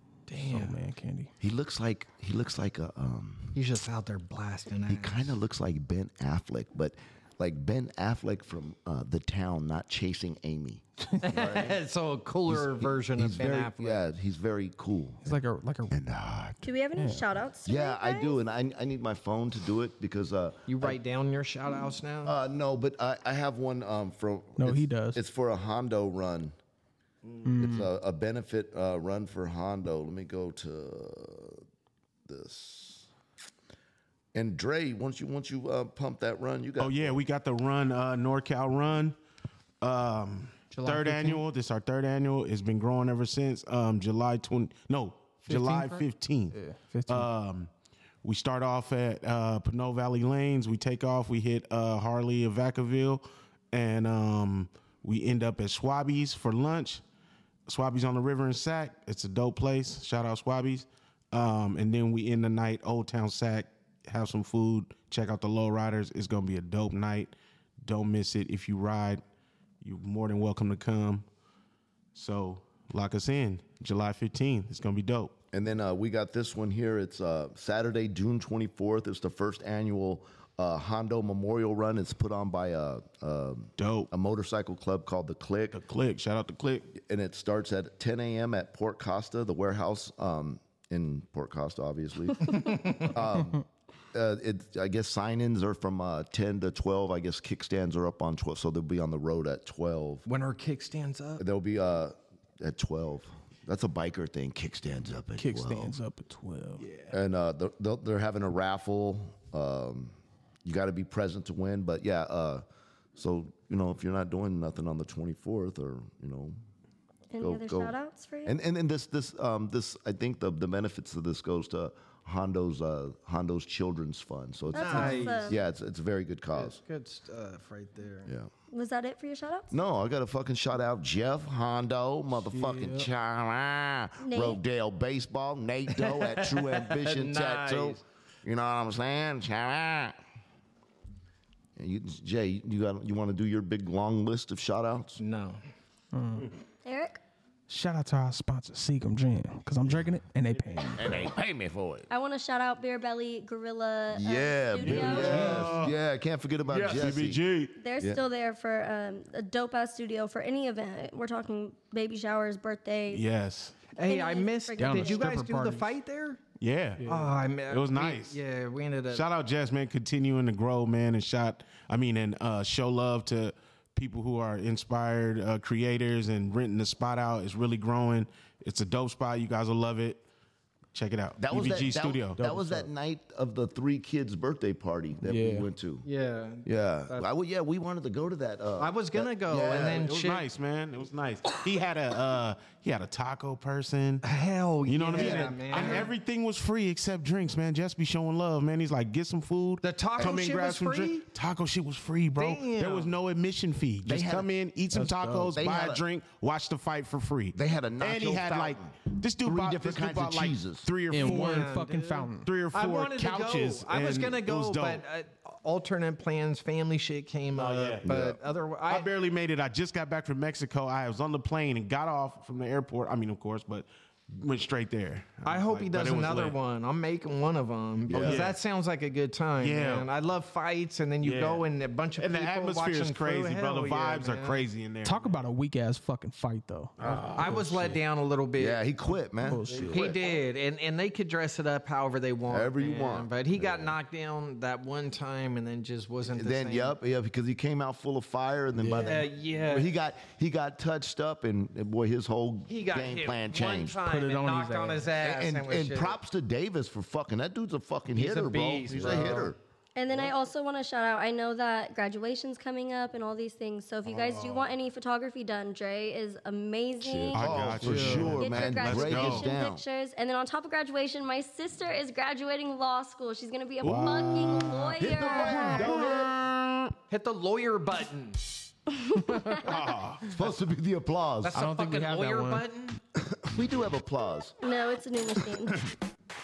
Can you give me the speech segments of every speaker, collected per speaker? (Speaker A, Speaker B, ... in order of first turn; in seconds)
Speaker A: 0.3-0.8, 3.5-5.4, 11.2-14.0, 20.7-22.3, 92.7-93.1, 100.2-101.4, 124.7-125.5, 126.5-128.3, 135.9-138.0, 145.2-145.6, 163.9-166.4, 167.1-169.2, 186.0-187.3, 188.8-190.4, 194.2-196.1, 199.8-201.2, 202.3-203.1, 211.1-219.1, 225.4-234.6, 237.3-238.8, 239.7-246.9, 249.0-249.9, 252.7-256.1, 258.1-259.5, 277.1-278.7, 281.4-283.0
Speaker B: 0.4-1.3, 15.2-16.0, 16.9-17.2, 24.6-25.2, 27.4-27.9, 40.7-41.4, 45.5-47.3, 105.4-106.9, 132.7-133.1, 146.1-146.5, 147.7-151.1, 164.8-165.9, 167.0-167.3, 182.4-182.9, 185.2-185.7, 204.9-205.5, 211.1-212.5, 235.0-237.3, 239.4-240.1, 248.8-249.2, 254.0-255.1, 267.8-268.3, 279.2-279.5, 281.5-282.6
Speaker C: 1.4-3.6, 4.8-11.8, 12.5-15.4, 15.9-16.7, 17.6-21.0, 22.2-26.5, 27.6-31.6, 32.3-33.1, 34.3-37.2, 75.5-85.8, 86.9-100.2, 101.4-105.9, 107.1-112.6, 113.2-116.5, 117.4-117.9, 118.5-126.8, 128.2-128.5, 129.7-140.2, 141.8-145.2, 151.0-152.1, 154.1-157.4, 181.4-186.1, 186.6-190.1, 204.0-204.5, 205.5-206.0, 207.5-210.9, 218.0-218.4, 228.1-228.5, 238.6-240.4, 242.5-244.0, 246.2-254.0, 255.2-259.6, 267.0-269.8, 275.0-276.4, 280.2-281.6, 283.2-284.6
Speaker D: 16.6-18.4, 117.3-118.5, 124.7-125.5, 128.7-129.8, 134.2-134.6, 146.8-147.2, 152.1-155.6, 157.8-163.2, 164.0-165.4, 259.9-276.1, 278.9-279.9, 284.6-285.9
Speaker E: 36.8-39.1, 39.8-47.7, 48.2-57.0, 57.7-67.3, 67.8-69.2, 69.8-71.2, 72.1-75.3, 83.8-84.1, 85.7-86.9, 154.8-155.9, 156.7-157.7, 163.1-163.9, 166.6-167.1, 167.7-168.4, 169.1-180.2, 180.9-182.4, 189.6-194.2, 194.8-211.8, 212.4-215.0, 217.6-218.1, 218.9-226.6, 228.1-228.6, 229.6-230.1, 231.2-231.6, 232.2-235.3, 237.0-238.0, 258.9-259.5, 264.1-264.6, 267.3-269.5, 273.8-276.5, 279.5-280.3